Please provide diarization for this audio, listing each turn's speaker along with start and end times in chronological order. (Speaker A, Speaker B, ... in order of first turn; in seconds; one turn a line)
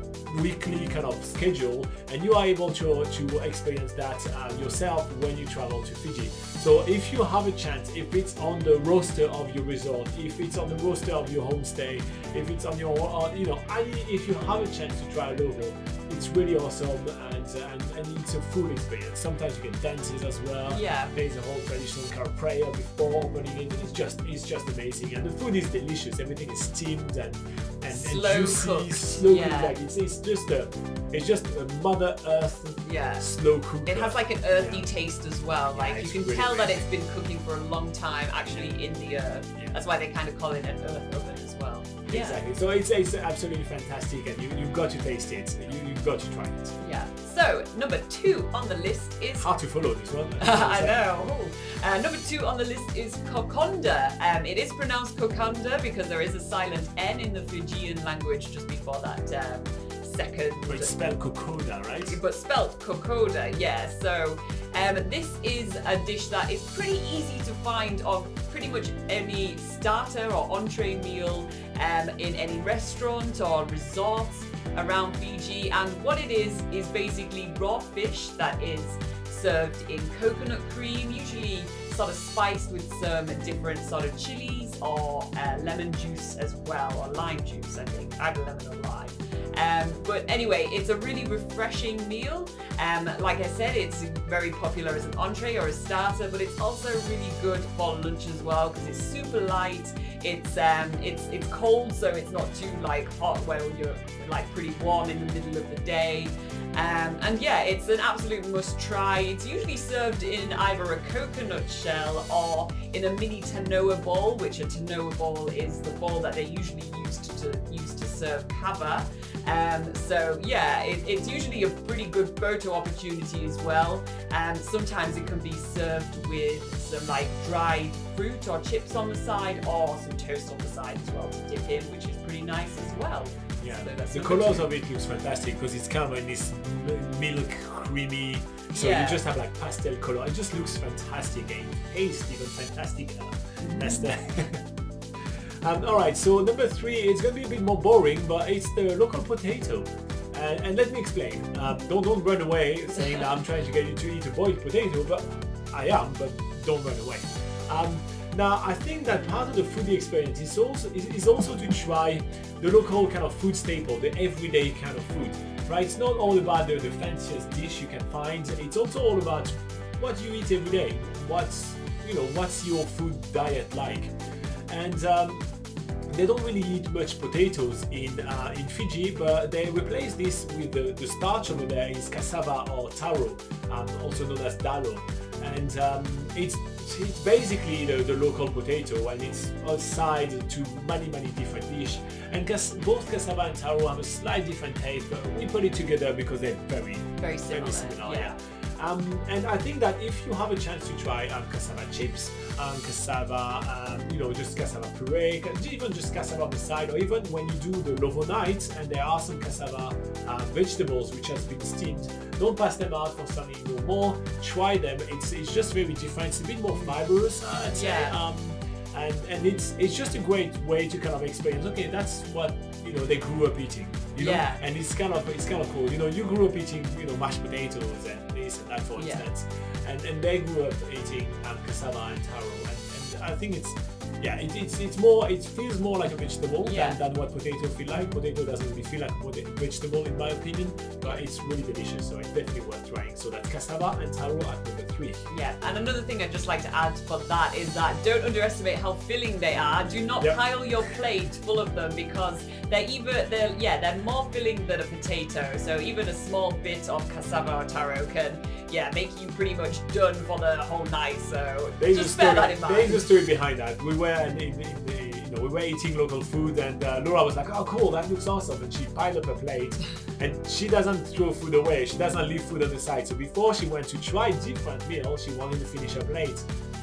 Speaker A: 0.3-34.9
Speaker B: 20.7-21.1
Speaker B: 27.9-29.7
Speaker B: 32.8-33.3
Speaker B: 33.8-42.4
Speaker A: 35.7-36.9
Speaker A: 42.1-46.8
Speaker B: 46.8-49.5
Speaker A: 49.4-51.0
Speaker B: 50.4-60.9
Speaker A: 60.7-62.2
Speaker B: 62.1-134.7
Speaker A: 133.6-144.6
Speaker B: 138.7-139.2
Speaker B: 143.6-144.1
Speaker A: 145.6-174.1
Speaker A: 174.7-175.4
Speaker A: 176.1-245.2
Speaker B: 197.2-198.3
Speaker B: 217.7-218.1
Speaker B: 224.2-224.6
Speaker B: 228.9-229.2
Speaker B: 236.6-237.0
Speaker B: 245.3-263.0
Speaker A: 261.8-276.5